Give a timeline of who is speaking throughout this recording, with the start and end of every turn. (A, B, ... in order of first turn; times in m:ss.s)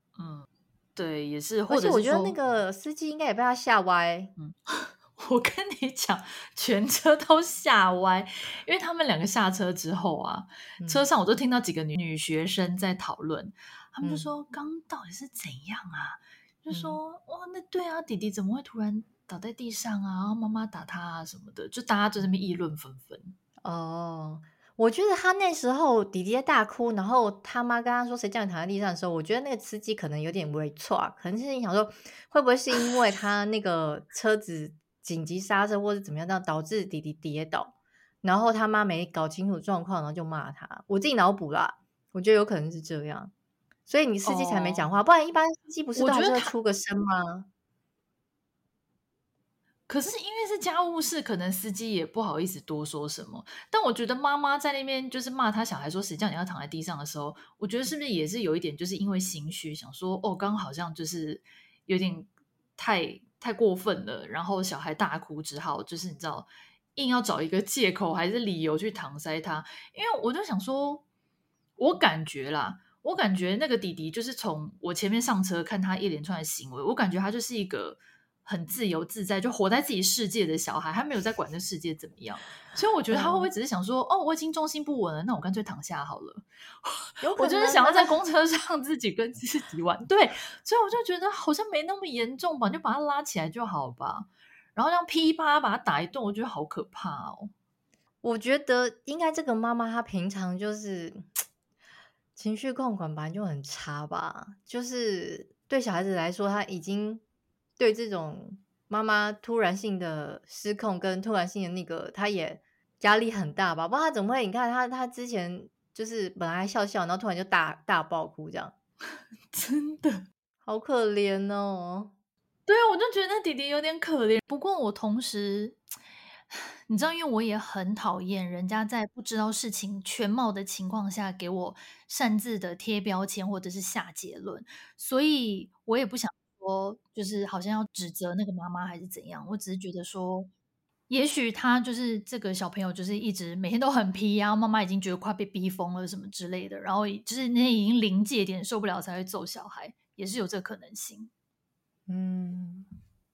0:00.2-0:02.4 A
0:01.7-0:04.3 B
0:04.4-0:23.3 A
0:10.8-0:11.0 B
0:14.0-0:14.3 B
0:16.7-0:17.0 B
0:23.6-0:43.3 B
0:43.9-0:47.5 B
0:44.2-0:44.9 A
0:46.0-0:46.5 A
0:49.9-1:11.0 A
1:11.8-1:37.5 A
1:23.1-1:23.5 B
1:27.2-1:28.2 B
1:38.2-1:41.3 B
1:42.4-1:47.2 B
1:47.8-1:58.7 B
1:59.5-2:00.2 A
2:00.7-2:02.1 B
2:02.7-2:05.8 A
2:06.5-2:20.5 A
2:21.1-2:31.3 A
2:32.1-2:32.9 B